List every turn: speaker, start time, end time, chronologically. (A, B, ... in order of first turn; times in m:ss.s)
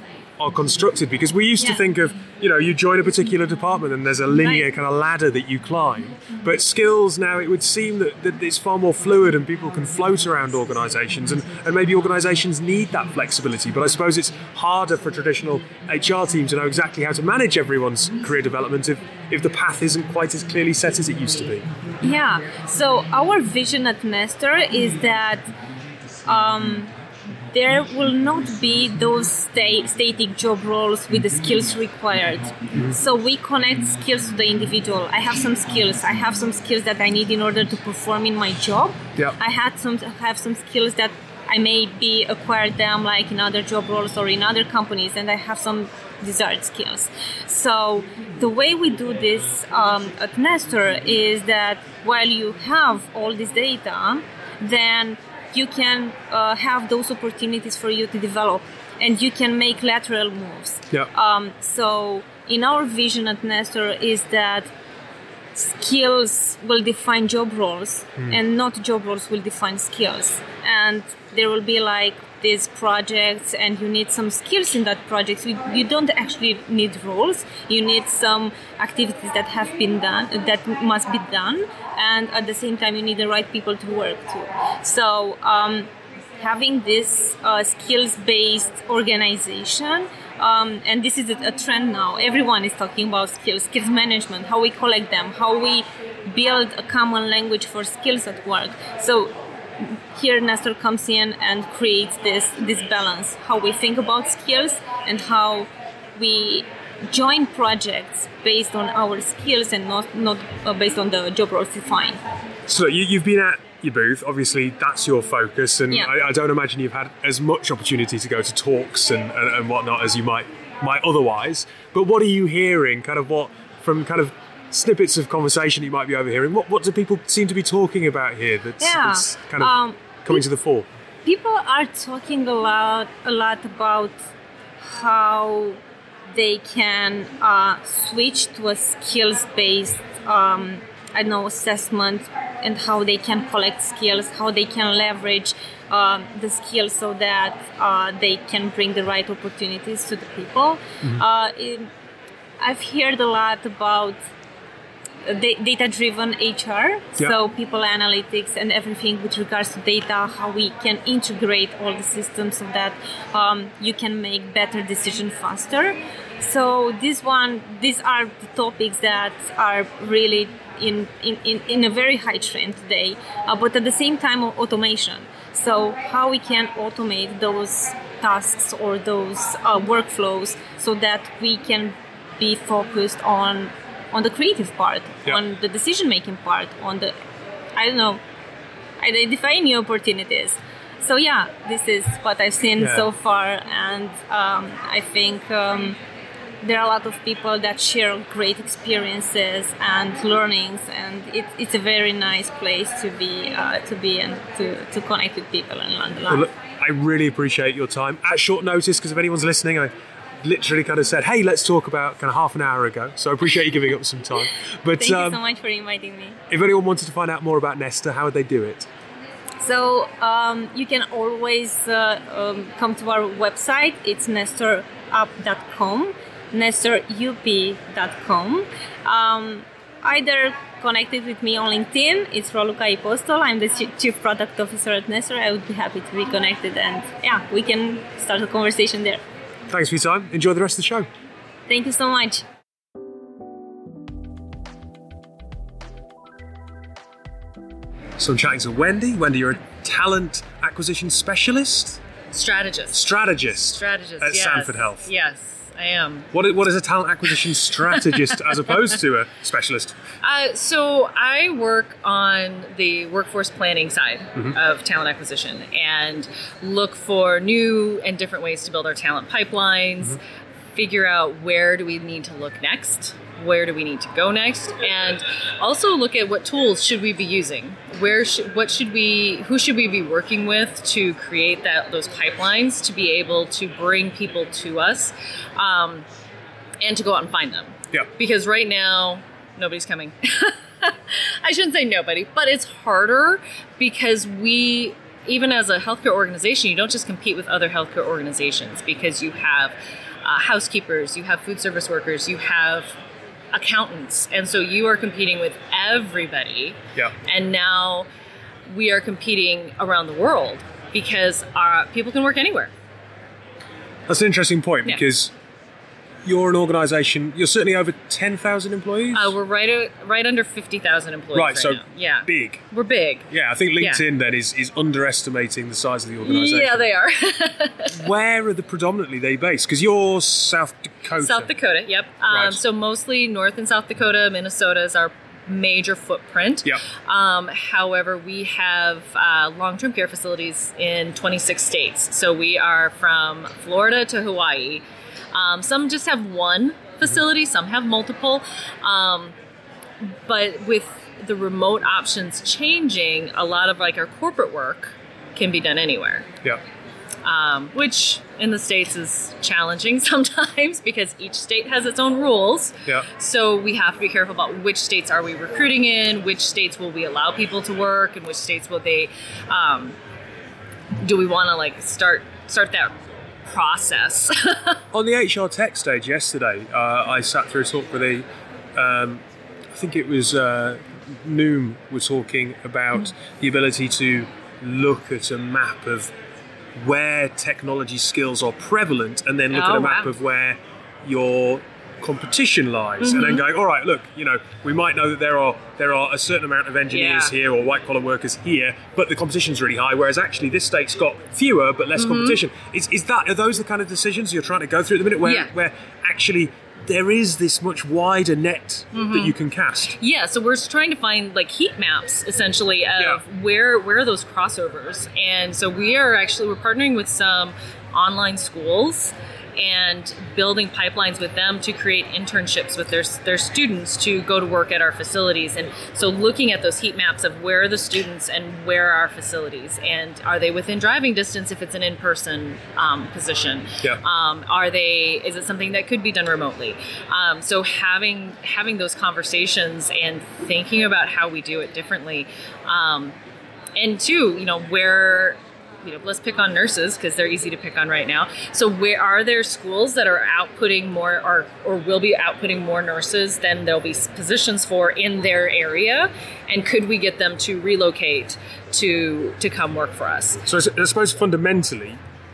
0:00.4-0:21.7 A
0:01.6-0:01.8 B
0:04.4-0:04.7 B
0:22.0-0:25.5 B
0:26.2-0:26.9 B
0:27.5-1:04.7 B
1:05.5-1:52.2 B
1:52.7-2:09.7 A
2:08.8-2:10.4 B
2:10.2-2:10.9 A
2:11.2-2:14.3 B
2:14.8-2:15.8 B
2:16.3-2:31.9 B
2:32.6-2:34.2 B
2:35.2-3:07.2 B
3:07.8-3:08.2 B
3:09.0-3:16.0 B
3:12.8-3:13.1 A
3:16.6-3:26.5 B
3:26.3-3:29.9 A
3:30.4-3:35.4 A
3:35.0-3:36.4 B
3:36.5-3:38.9 A
3:39.6-3:59.2 B
3:59.7-4:01.1 A
4:01.7-4:02.4 B
4:08.2-4:12.0 A
4:12.3-4:16.3 C
4:12.9-4:15.1 A
4:16.3-4:20.0 A
4:20.2-4:30.2 C
4:30.8-4:46.1 C
4:46.8-5:03.0 C
5:03.5-5:08.1 C
5:08.7-5:12.7 C
5:14.1-5:15.3 A
5:16.2-5:19.4 A
5:19.1-5:24.0 C
5:21.3-5:22.6 A
5:23.3-5:26.9 A
5:26.2-5:28.1 C
5:27.9-5:31.5 A
5:31.2-5:49.3 C
5:32.3-5:32.6 A
5:50.0-5:56.3 C
5:57.2-6:10.0 C
6:11.0-6:13.0 C
6:13.5-6:14.8 C
6:14.9-6:26.1 A
6:26.8-6:50.0 A
6:29.5-6:30.2 C
6:33.0-6:33.4 C
6:36.9-6:37.4 C
6:42.0-6:42.4 C
6:45.2-6:45.5 C
6:48.9-6:49.3 C
6:50.0-7:23.2 C
7:23.8-7:40.4 C
7:40.5-7:42.0 A